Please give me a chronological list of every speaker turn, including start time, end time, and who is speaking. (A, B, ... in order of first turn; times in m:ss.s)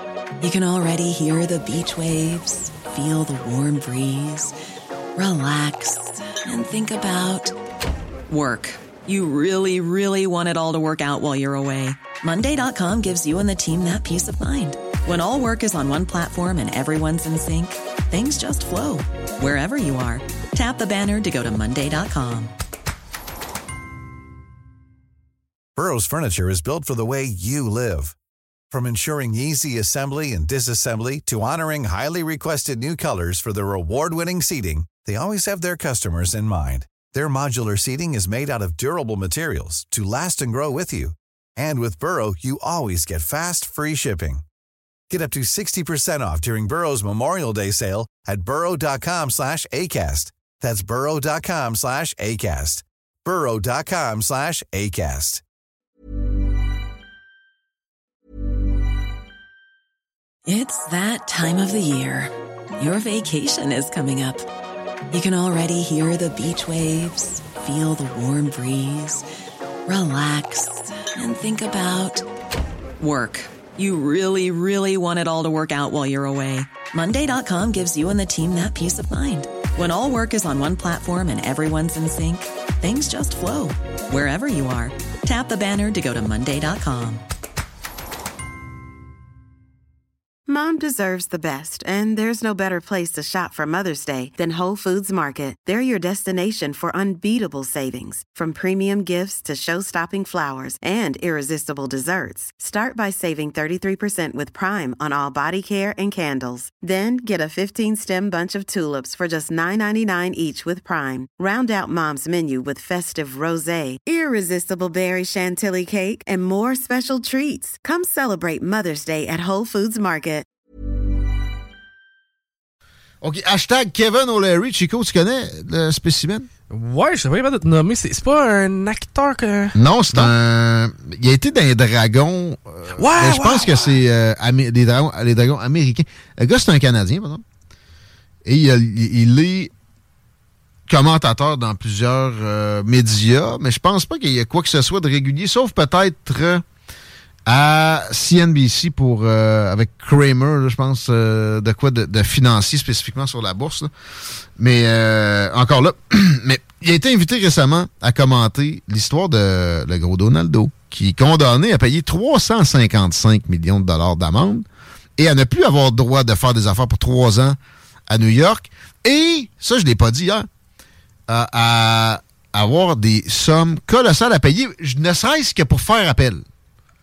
0:00.4-0:04.5 A
0:05.2-0:07.5 A
0:08.3-0:22.5 A
0:25.8-0:28.2 B
0:28.7-0:44.4 B
0:45.1-0:55.4 B
1:00.5-1:04.4 A
1:05.1-1:09.2 A
1:09.9-1:12.2 A
1:13.0-1:27.2 A
1:30.5-2:00.5 C
2:03.2-2:06.5 D
2:06.7-2:10.3 E
2:09.7-2:17.4 D
2:12.9-2:13.8 E
2:18.4-2:19.7 D
2:20.9-2:26.6 D
2:27.5-2:33.9 D
2:34.6-2:47.6 D
2:48.1-2:50.5 D
2:51.3-2:56.4 D